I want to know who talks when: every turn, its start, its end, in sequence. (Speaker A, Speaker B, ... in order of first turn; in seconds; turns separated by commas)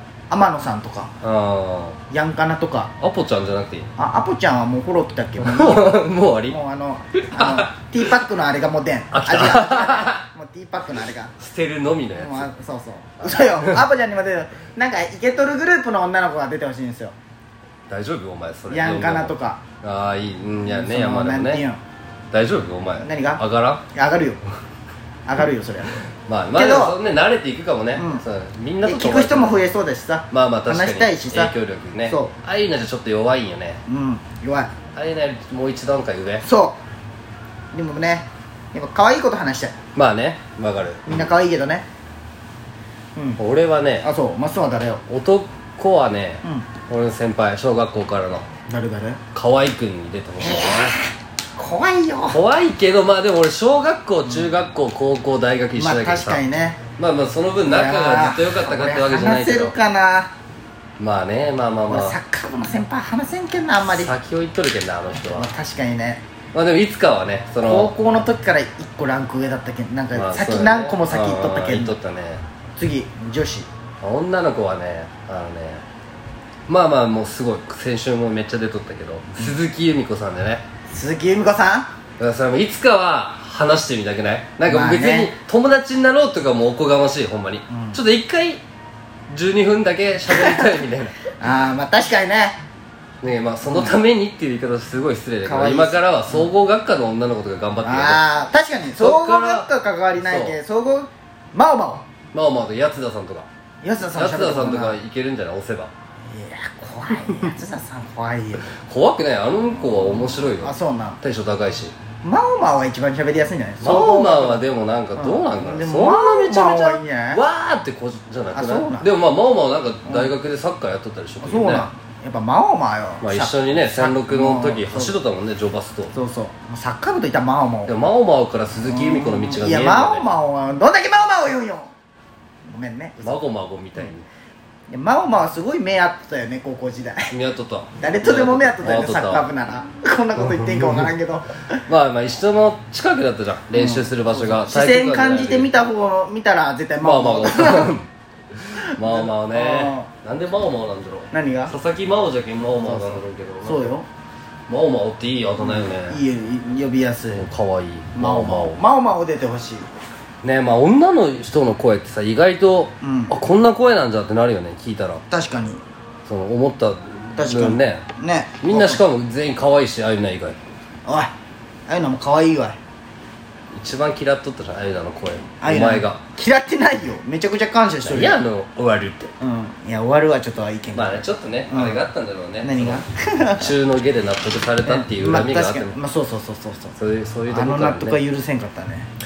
Speaker A: 0.3-1.1, Speaker B: 1.2-2.0, Speaker A: 2.1-2.9, Speaker B: 3.0-3.9, Speaker A: 4.0-11.3, Speaker B: 5.4-6.6, Speaker B: 7.3-7.7, Speaker B: 9.1-10.2, Speaker B: 11.4-12.5, Speaker A: 12.2-17.1, Speaker B: 13.2-13.8, Speaker B: 17.9-21.6, Speaker A: 18.7-19.6, Speaker A: 20.6-21.8, Speaker B: 22.3-23.8, Speaker A: 23.0-24.4, Speaker A: 25.3-26.0, Speaker B: 26.3-29.6, Speaker A: 26.6-27.0, Speaker A: 28.0-28.2, Speaker A: 28.8-31.5, Speaker B: 30.3-33.8, Speaker A: 32.0-32.3, Speaker A: 33.9-34.7, Speaker B: 35.0-36.5, Speaker A: 36.4-36.8, Speaker A: 37.7-39.8, Speaker B: 40.0-41.3, Speaker A: 41.1-41.9, Speaker B: 43.4-44.1, Speaker A: 44.0-45.0, Speaker B: 45.1-48.5, Speaker A: 48.7-49.2, Speaker B: 49.3-51.0, Speaker A: 50.4-52.4, Speaker B: 52.3-56.4, Speaker A: 55.8-56.8, Speaker B: 57.0-59.8, Speaker A: 57.7-60.3, Speaker B: 61.0-62.2, Speaker A: 61.9-64.1, Speaker B: 63.9-65.5, Speaker A: 65.3-66.2, Speaker B: 66.5-67.9, Speaker A: 67.6-71.9, Speaker B: 70.1-72.4, Speaker A: 72.8-73.7, Speaker B: 74.0-75.8, Speaker B: 76.7-80.6, Speaker A: 80.9-81.9, Speaker B: 82.2-88.6, Speaker A: 84.7-85.3, Speaker A: 87.7-88.0, Speaker B: 89.3-91.2, Speaker A: 90.3-90.8, Speaker A: 91.3-92.6, Speaker B: 93.2-98.2, Speaker A: 95.5-96.5, Speaker A: 97.8-102.1, Speaker B: 99.0-100.6, Speaker B: 102.3-103.5, Speaker A: 103.8-105.0, Speaker B: 104.1-105.9, Speaker A: 106.3-108.7, Speaker B: 108.7-112.0, Speaker A: 110.0-111.2, Speaker A: 112.2-114.6, Speaker B: 113.8-121.9, Speaker A: 115.2-117.4, Speaker A: 118.5-119.1, Speaker A: 120.1-120.3, Speaker A: 121.4-125.2, Speaker B: 123.2-126.1, Speaker A: 126.1-128.0, Speaker B: 127.9-130.3, Speaker A: 128.8-131.9, Speaker A: 132.7-133.4, Speaker B: 133.2-134.3, Speaker A: 134.9-137.3, Speaker B: 137.3-139.5, Speaker A: 138.0-141.8, Speaker B: 140.3-141.1, Speaker B: 141.9-145.7, Speaker A: 143.7-148.0, Speaker B: 147.0-153.9, Speaker A: 148.8-150.1, Speaker A: 151.3-151.7, Speaker A: 152.8-154.1, Speaker B: 154.7-156.2, Speaker A: 155.6-157.5, Speaker B: 157.3-158.8, Speaker A: 158.2-159.9, Speaker B: 160.4-165.2, Speaker A: 163.0-163.3, Speaker A: 165.3-165.8, Speaker B: 166.3-168.1, Speaker A: 167.4-169.0, Speaker B: 168.6-170.6, Speaker A: 171.1-171.3, Speaker A: 171.9-172.8, Speaker B: 173.7-176.2, Speaker A: 175.6-178.4, Speaker B: 178.0-179.3, Speaker A: 179.4-182.0, Speaker B: 180.9-186.0, Speaker A: 182.6-183.7, Speaker A: 184.8-186.9, Speaker B: 187.0-188.2, Speaker A: 187.5-189.1